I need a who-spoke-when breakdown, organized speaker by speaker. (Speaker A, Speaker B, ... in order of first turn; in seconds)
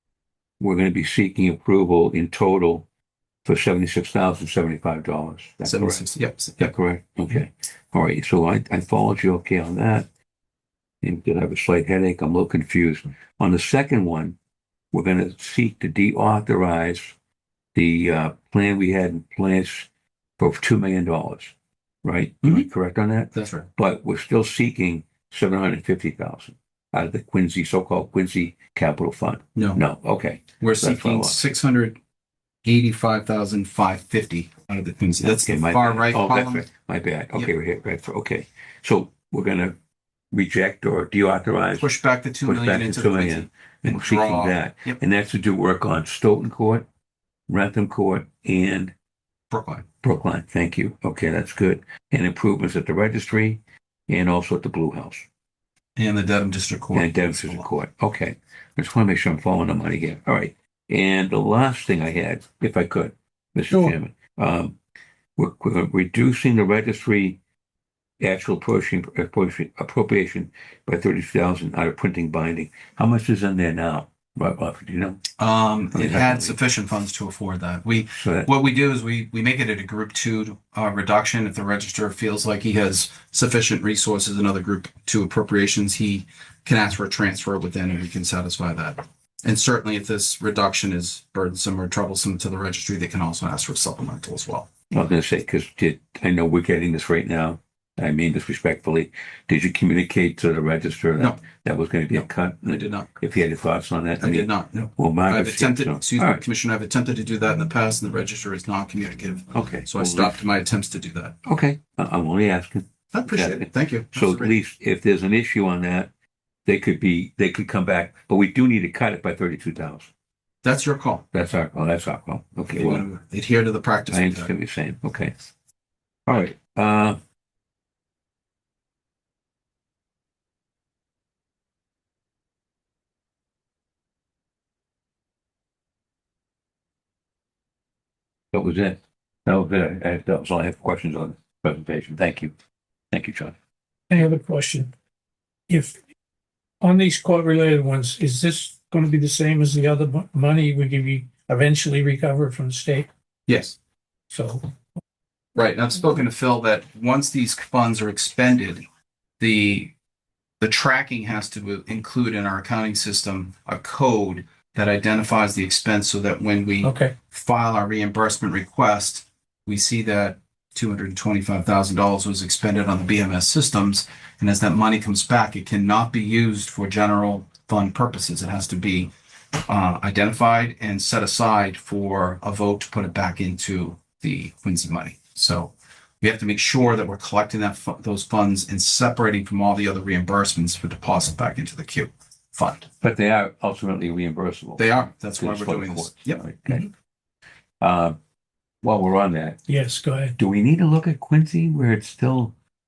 Speaker A: 0.6-2.9, 3.5-6.1, 6.6-10.1, 11.0-14.4, 14.9-17.1, 17.8-31.5, 35.2-39.8, 40.3-41.9, 42.4-46.9, 47.5-48.9, 50.0-55.3, 56.9-64.8, 65.4-67.4, 68.2-75.2, 75.9-76.6, 78.2-78.5, 94.9-106.4, 109.5-110.4, 111.5-116.1, 116.7-120.1, 121.3-123.1, 124.1-125.3, 126.3-127.2, 138.5-142.5, 143.1-143.6, 193.0-196.8, 197.8-198.2, 198.8-199.6, 200.4-202.5
Speaker B: 5.7-6.7, 23.3-23.7, 29.6-29.8, 30.6-32.0, 32.6-36.7, 41.8-45.0, 49.5-49.9, 56.0-57.7, 75.4-94.7, 102.1-103.1, 104.2-111.4, 113.1-114.5, 120.6-121.2, 122.7-124.5, 153.5-153.8, 155.6-158.8, 159.4-159.9, 160.6-179.1, 179.7-192.9, 194.8-196.9
Speaker C: 63.7-64.0, 144.1-144.9, 145.7-146.0, 146.8-153.1, 154.3-154.7, 166.8-167.2, 199.7-200.4